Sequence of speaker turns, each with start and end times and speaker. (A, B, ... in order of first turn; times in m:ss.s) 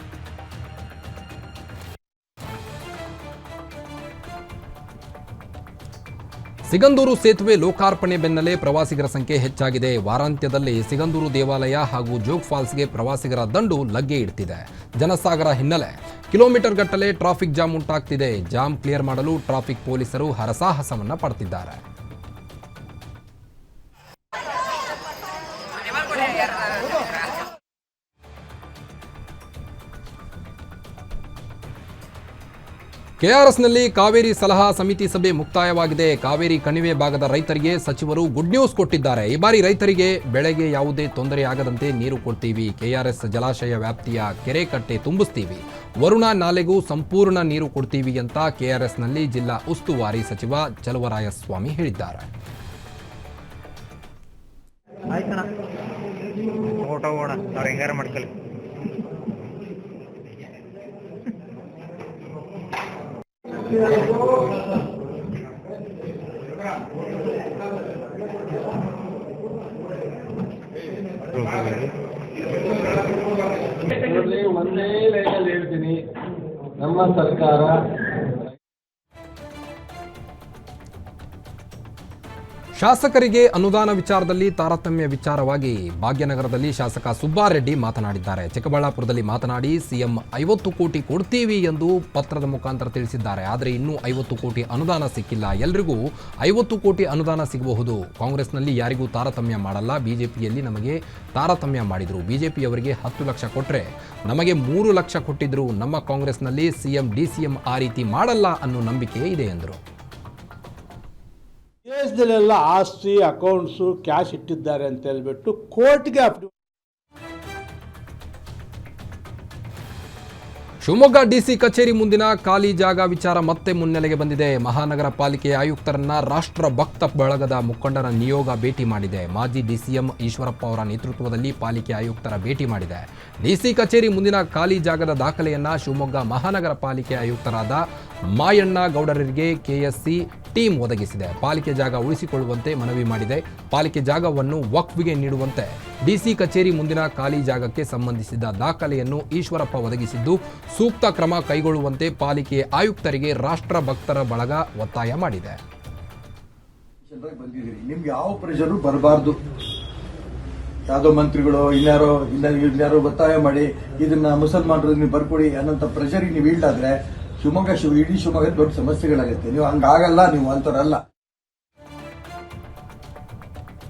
0:06.7-0:21.8 A
0:33.2-0:52.3 A
0:55.1-0:55.5 B
0:56.8-0:58.3 B
1:11.3-1:12.0 B
1:13.9-1:16.0 C
1:16.8-1:17.7 C
1:22.8-1:49.8 A
1:51.9-1:56.5 D
2:00.8-2:35.6 A
2:37.1-2:39.4 E
2:40.9-2:51.0 E